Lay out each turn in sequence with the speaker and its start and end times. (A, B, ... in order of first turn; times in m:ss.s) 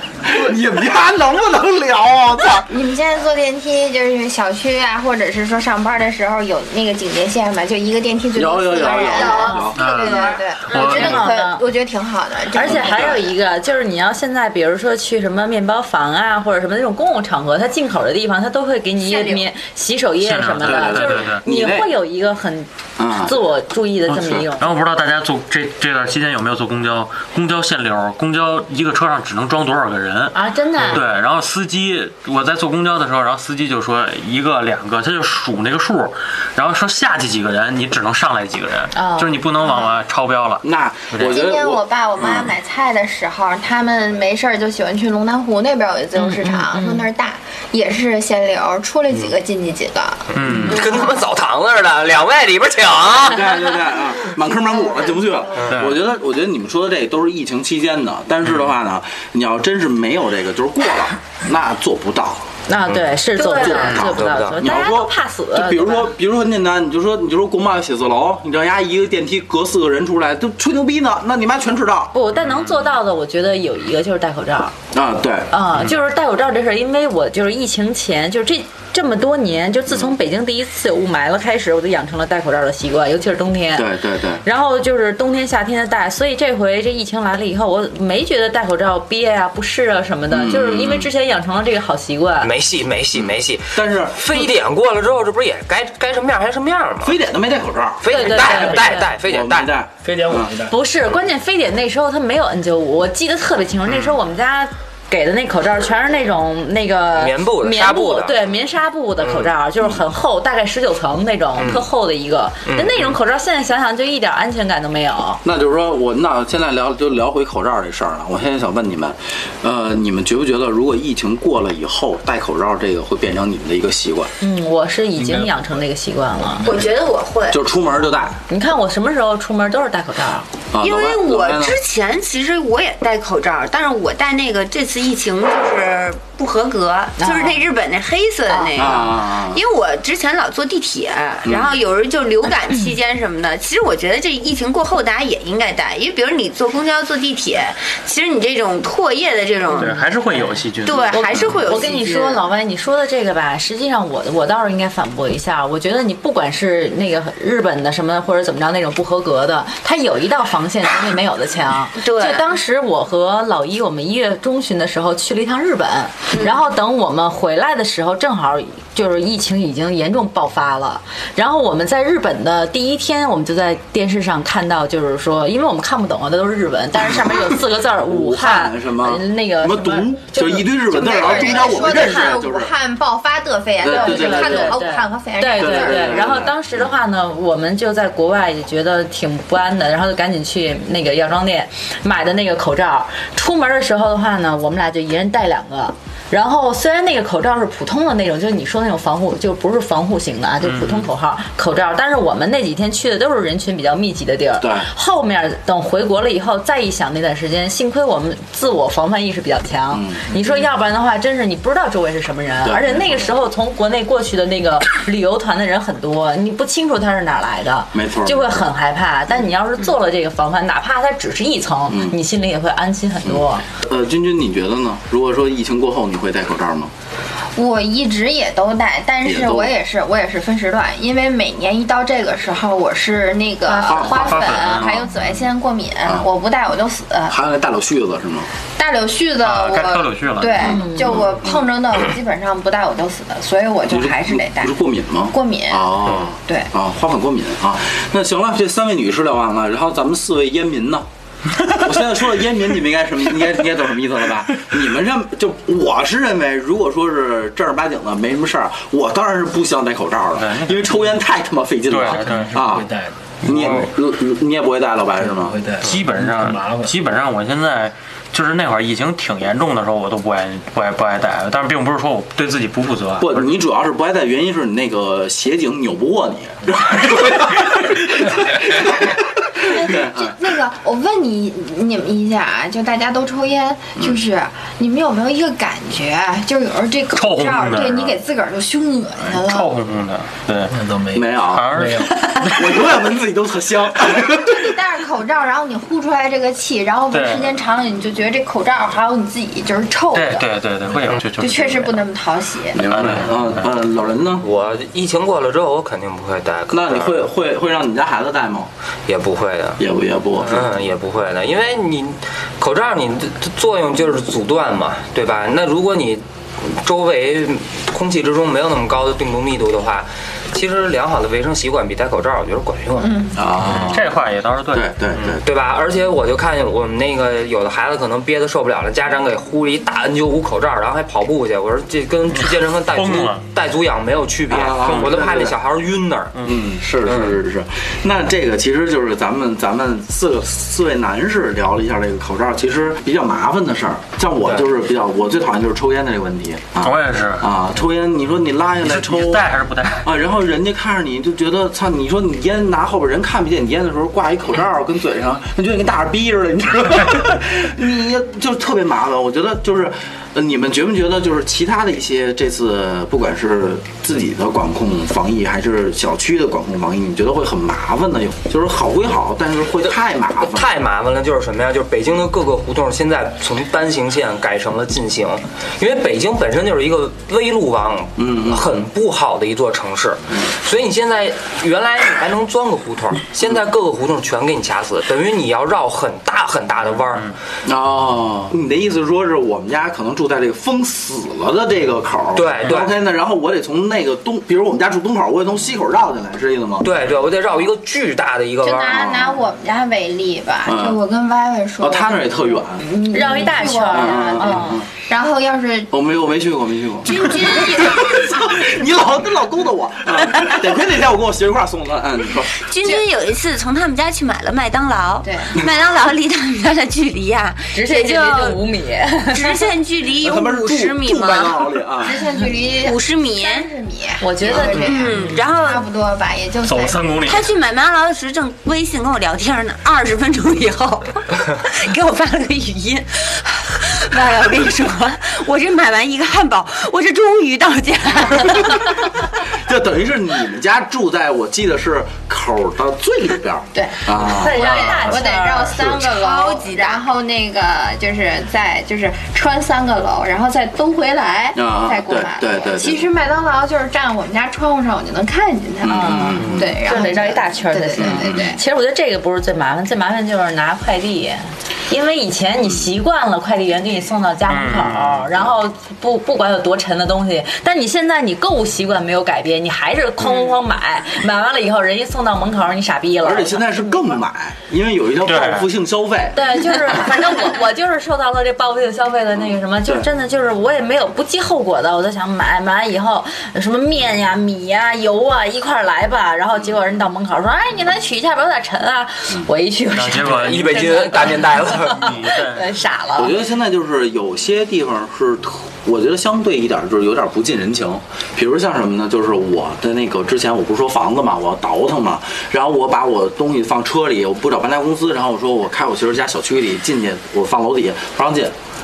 0:00.2-0:02.7 A
0:02.7-0:13.1 B
0:08.3-0:09.8 A
0:08.9-0:10.4 C
0:09.7-0:11.3 D
0:10.7-0:11.6 E
0:12.5-0:13.2 A
0:12.5-0:24.7 E
0:19.0-0:19.5 C
0:20.2-0:21.4 D
0:20.6-0:21.9 A
0:23.0-0:23.4 A
0:24.1-0:41.4 D
0:30.3-0:31.0 E
0:38.9-0:40.0 E
0:40.6-0:42.5 A
0:41.2-0:51.3 B
0:46.2-0:47.1 E
0:50.3-0:50.8 D
0:50.5-0:53.5 F
0:53.2-1:02.5 A
0:55.7-0:56.0 D
1:02.7-1:06.1 E
1:03.4-1:04.0 C
1:03.5-1:12.1 A
1:03.9-1:04.6 F
1:12.1-1:14.7 E
1:12.3-1:12.9 D
1:14.9-1:15.5 A
1:15.5-1:32.5 E
1:23.7-1:24.4 A
1:30.3-1:31.1 A
1:32.4-1:37.2 F
1:33.2-1:34.5 A
1:37.0-1:40.5 A
1:38.0-1:39.7 F
1:38.1-1:39.1 E
1:38.4-1:38.8 G
1:40.0-1:40.8 G
1:40.7-1:55.4 E
1:47.2-1:48.4 F
1:49.2-1:49.5 F
1:51.6-1:51.8 F
1:55.4-2:04.3 A
2:04.4-2:06.7 E
2:06.6-2:07.6 C
2:07.5-2:08.4 A
2:08.5-2:10.5 E
2:10.7-2:11.8 A
2:10.8-2:30.0 C
2:17.2-2:17.6 E
2:18.5-2:19.1 E
2:18.8-2:19.6 A
2:21.4-2:21.8 A
2:29.7-2:31.8 D
2:29.8-3:02.3 E
2:30.8-2:32.4 C
2:42.0-2:42.4 C
2:58.0-3:02.7 A
3:00.8-3:06.4 B
3:03.8-3:04.8 A
3:03.8-3:43.6 E
3:05.5-3:06.6 A
3:20.6-3:21.1 D
3:24.6-3:24.9 A
3:29.9-3:30.4 A
3:32.6-3:33.3 A
3:37.9-3:38.5 A
3:41.9-3:42.2 A
3:43.2-3:46.9 A
3:47.6-3:57.4 B
3:49.2-3:49.7 A
3:53.7-3:54.1 E
3:53.8-3:54.4 A
3:54.0-3:55.1 D
3:57.3-3:58.5 A
3:58.8-4:04.7 B
3:59.4-4:00.8 D
4:00.6-4:01.1 E
4:01.1-4:01.6 A
4:03.9-4:11.0 A
4:05.3-4:06.7 B
4:11.6-4:22.9 A
4:20.4-4:21.0 D
4:21.9-4:22.6 D
4:22.1-4:23.7 G
4:23.4-4:25.6 A
4:23.4-4:23.8 D
4:25.2-4:26.9 G
4:25.8-4:33.5 D
4:33.2-4:40.4 A
4:39.6-4:49.7 B
4:47.1-4:48.2 D
4:49.4-4:50.8 D
4:50.7-4:52.2 G
4:51.1-4:51.7 A
4:51.4-4:52.6 D
4:52.4-4:54.7 A
4:54.1-5:00.5 B
4:57.1-4:57.5 D
5:00.1-5:02.0 D
5:01.4-5:02.8 B
5:02.7-5:04.4 A
5:02.9-5:03.5 D
5:04.4-5:07.2 F
5:06.7-5:08.7 A
5:09.1-5:09.8 F
5:09.8-5:10.7 A
5:10.4-5:23.2 F
5:23.0-5:23.3 B
5:23.4-5:24.1 A
5:23.6-5:25.4 D
5:24.7-5:25.4 A
5:25.4-5:36.4 F
5:32.3-5:33.4 D
5:34.5-5:35.6 A
5:36.4-5:49.5 A
5:46.8-5:47.5 D
5:48.8-5:50.0 D
5:50.0-6:10.8 A
6:09.8-6:27.3 F
6:18.2-6:18.8 A
6:27.6-6:36.9 A
6:32.3-6:32.9 F
6:36.8-6:39.2 F
6:38.6-6:45.9 B
6:38.9-6:39.3 A
6:40.6-6:41.0 A
6:41.8-6:42.8 A
6:43.1-6:44.8 E
6:43.9-6:44.9 A
6:45.9-6:52.7 A
6:47.0-6:48.2 C
6:52.6-6:58.6 C
6:55.2-6:55.6 B
6:57.7-6:59.6 E
6:59.3-7:01.6 C
7:00.2-7:02.2 A
7:02.0-7:07.3 B
7:02.8-7:03.7 C
7:04.2-7:04.9 E
7:04.7-7:05.8 C
7:06.6-7:07.5 D
7:07.2-7:19.1 C
7:18.7-7:25.0 A
7:23.7-7:38.6 B
7:24.1-7:25.7 E
7:25.7-7:26.0 A
7:26.0-7:27.0 C
7:31.5-7:33.1 A
7:35.8-7:36.8 A
7:35.9-7:54.2 E
7:38.0-7:38.5 A
7:44.5-7:45.5 D
7:53.2-7:57.1 A
7:55.2-7:55.7 D
7:56.3-8:13.4 E
8:09.9-8:12.8 D
8:10.3-8:12.2 F
8:13.2-8:28.5 A